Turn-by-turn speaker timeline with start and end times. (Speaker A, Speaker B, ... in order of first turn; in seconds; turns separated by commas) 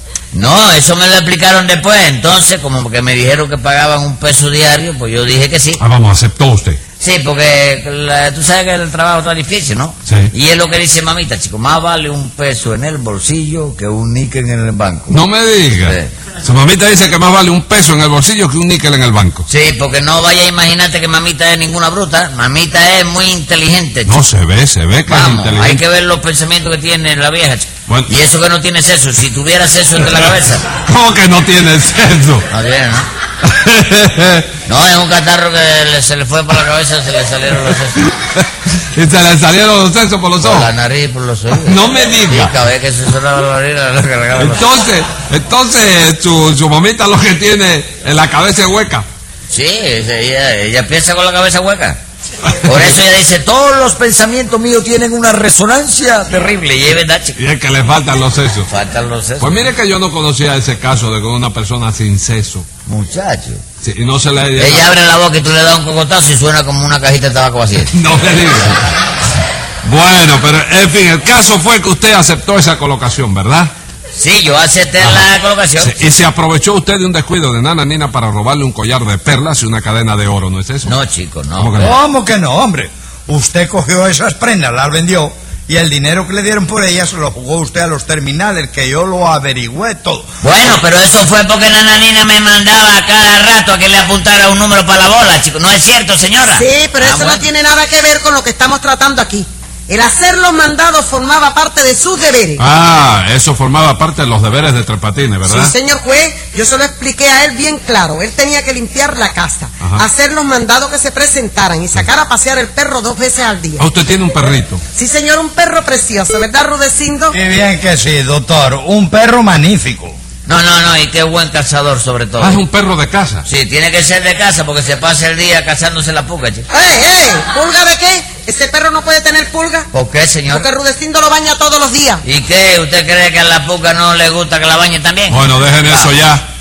Speaker A: 0.3-5.8, Speaker B: 5.8-6.8, Speaker A: 7.0-15.2, Speaker B: 10.1-10.3, Speaker B: 15.1-19.5, Speaker A: 15.8-16.1, Speaker A: 19.5-24.2, Speaker B: 24.1-25.8, Speaker A: 25.1-30.7, Speaker B: 27.9-28.1, Speaker B: 30.8-32.5, Speaker A: 32.5-33.1, Speaker B: 33.4-34.5, Speaker A: 34.7-38.1, Speaker B: 38.0-40.7, Speaker A: 40.4-44.7, Speaker B: 41.5-42.5, Speaker B: 44.4-49.1, Speaker A: 49.5-52.0, Speaker A: 52.6-57.4, Speaker B: 57.4-58.7, Speaker A: 58.7-59.6, Speaker B: 59.4-62.7, Speaker A: 62.9-63.6, Speaker B: 63.8-64.9, Speaker A: 64.6-68.0, Speaker B: 67.9-68.8, Speaker B: 69.8-73.7, Speaker A: 74.1-76.0, Speaker B: 75.8-81.0, Speaker A: 80.8-81.9, Speaker B: 81.6-82.0, Speaker C: 81.8-90.3, Speaker A: 90.4-97.4, Speaker D: 96.5-102.6, Speaker B: 102.6-105.8, Speaker D: 105.5-113.9, Speaker B: 109.8-110.1, Speaker B: 113.8-114.8, Speaker D: 114.9-117.3, Speaker C: 117.3-120.2, Speaker A: 120.5-122.6, Speaker B: 122.4-123.5, Speaker A: 123.5-126.7, Speaker D: 126.7-129.9, Speaker A: 129.9-130.7, Speaker D: 130.5-132.2, Speaker A: 132.2-136.1, Speaker B: 135.3-136.4